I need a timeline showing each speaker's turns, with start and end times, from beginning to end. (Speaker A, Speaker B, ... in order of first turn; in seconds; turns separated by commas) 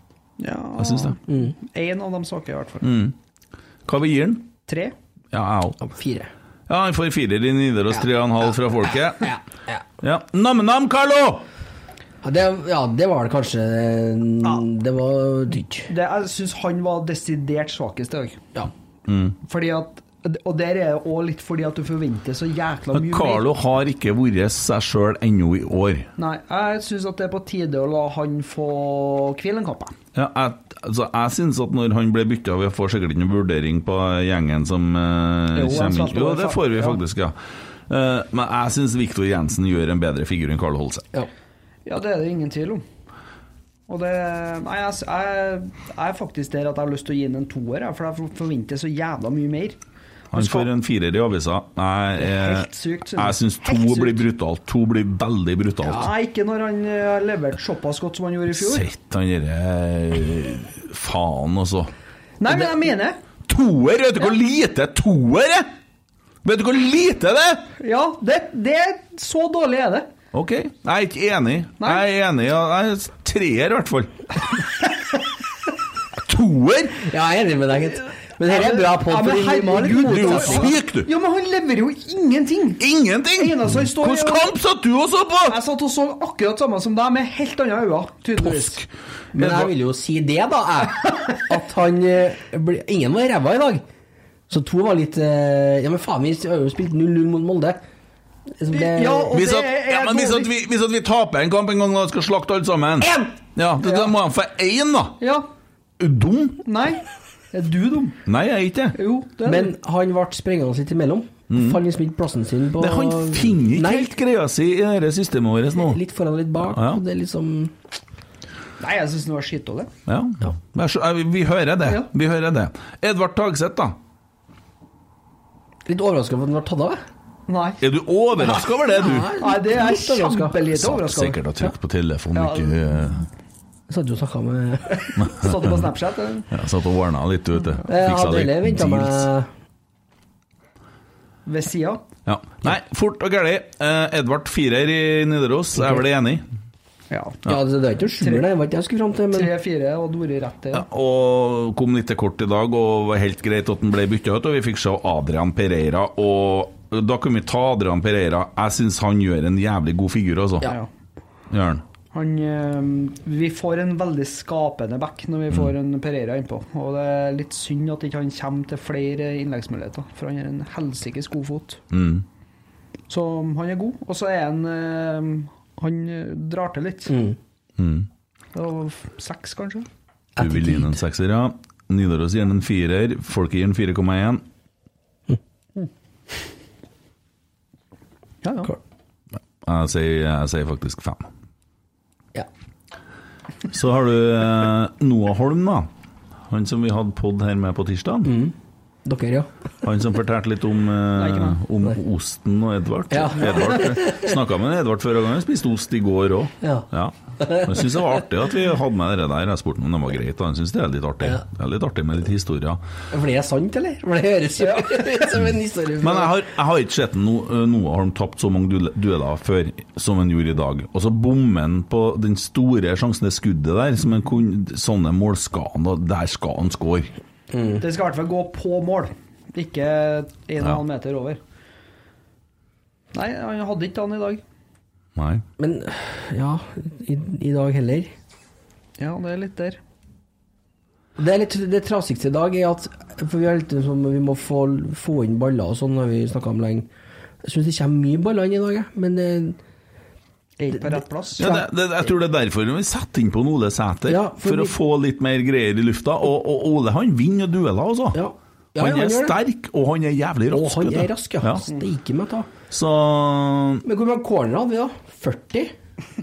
Speaker A: 0.4-2.9, Speaker B: 0.8-1.2, Speaker C: 1.3-1.5, Speaker B: 2.8-3.1, Speaker B: 3.9-4.5, Speaker A: 4.7-4.9, Speaker B: 5.3-5.8, Speaker C: 5.8-6.3, Speaker B: 6.7-9.3, Speaker C: 9.2-9.8, Speaker B: 10.0-11.4, Speaker C: 12.2-15.9, Speaker A: 15.9-18.4, Speaker B: 19.1-19.4, Speaker A: 19.4-23.5, Speaker B: 22.9-26.1, Speaker A: 26.2-29.9, Speaker B: 30.1-37.4, Speaker A: 35.5-37.0, Speaker B: 37.9-41.0, Speaker A: 41.9-42.8, Speaker A: 43.9-49.8, Speaker B: 50.3-56.1, Speaker A: 50.3-50.7, Speaker A: 52.2-54.2, Speaker A: 55.8-58.9, Speaker B: 58.5-61.9, Speaker A: 62.4-63.2, Speaker B: 63.5-65.7, Speaker B: 66.4-67.7, Speaker A: 67.8-70.1, Speaker B: 70.3-74.5, Speaker B: 76.2-77.1, Speaker C: 77.0-80.7, Speaker A: 78.4-82.8, Speaker B: 80.0-81.1, Speaker B: 82.8-85.6, Speaker A: 83.3-84.5, Speaker A: 85.5-88.8, Speaker B: 88.4-89.7, Speaker C: 89.3-93.8, Speaker C: 94.5-97.8, Speaker C: 98.6-99.3, Speaker A: 98.7-100.5, Speaker B: 99.3-105.2, Speaker C: 103.0-103.3, Speaker A: 103.8-104.1, Speaker A: 105.2-105.5, Speaker B: 106.0-106.6, Speaker A: 106.6-108.2, Speaker B: 108.2-109.0, Speaker A: 108.9-109.7, Speaker C: 109.4-114.1, Speaker B: 111.5-111.8, Speaker B: 112.8-116.0, Speaker C: 115.7-117.7, Speaker B: 116.7-117.0, Speaker A: 118.8-119.9, Speaker B: 120.1-124.0, Speaker C: 125.8-127.0, Speaker A: 127.5-127.8, Speaker B: 127.8-129.3, Speaker C: 128.9-130.6, Speaker A: 129.2-131.4, Speaker B: 130.7-133.3, Speaker A: 132.3-132.8, Speaker C: 133.9-135.3, Speaker B: 135.2-135.8, Speaker A: 135.2-136.5, Speaker B: 136.5-139.3, Speaker C: 137.9-139.5, Speaker A: 141.4-142.0, Speaker B: 142.2-146.4, Speaker A: 147.1-147.4, Speaker C: 147.4-149.5, Speaker A: 148.2-148.5, Speaker A: 149.3-150.8, Speaker B: 150.7-160.7, Speaker A: 160.6-160.9, Speaker B: 161.5-161.8, Speaker A: 162.1-171.8, Speaker B: 171.9-172.2, Speaker A: 173.1-177.2, Speaker C: 177.1-177.3, Speaker B: 177.8-178.1, Speaker A: 178.5-179.9, Speaker C: 180.3-180.9, Speaker B: 180.4-184.4, Speaker A: 188.4-188.7, Speaker B: 189.6-191.3, Speaker B: 193.7-195.9, Speaker B: 196.5-198.3, Speaker C: 198.2-199.5, Speaker B: 199.8-212.8, Speaker A: 201.1-201.6, Speaker C: 203.1-204.3, Speaker C: 206.6-206.9, Speaker C: 207.4-208.1, Speaker C: 213.1-216.4, Speaker A: 214.6-215.0, Speaker B: 216.0-227.1, Speaker C: 227.5-227.8, Speaker A: 227.8-231.4, Speaker A: 233.1-234.4, Speaker B: 235.2-235.4, Speaker C: 235.6-238.1, Speaker A: 239.0-239.8, Speaker C: 241.2-246.9, Speaker C: 247.4-249.6, Speaker A: 250.6-251.5, Speaker C: 250.8-251.7, Speaker B: 251.4-258.2, Speaker C: 254.1-254.7, Speaker C: 258.1-259.4, Speaker B: 258.8-261.6, Speaker C: 260.5-262.5, Speaker B: 262.7-263.8, Speaker C: 263.8-265.7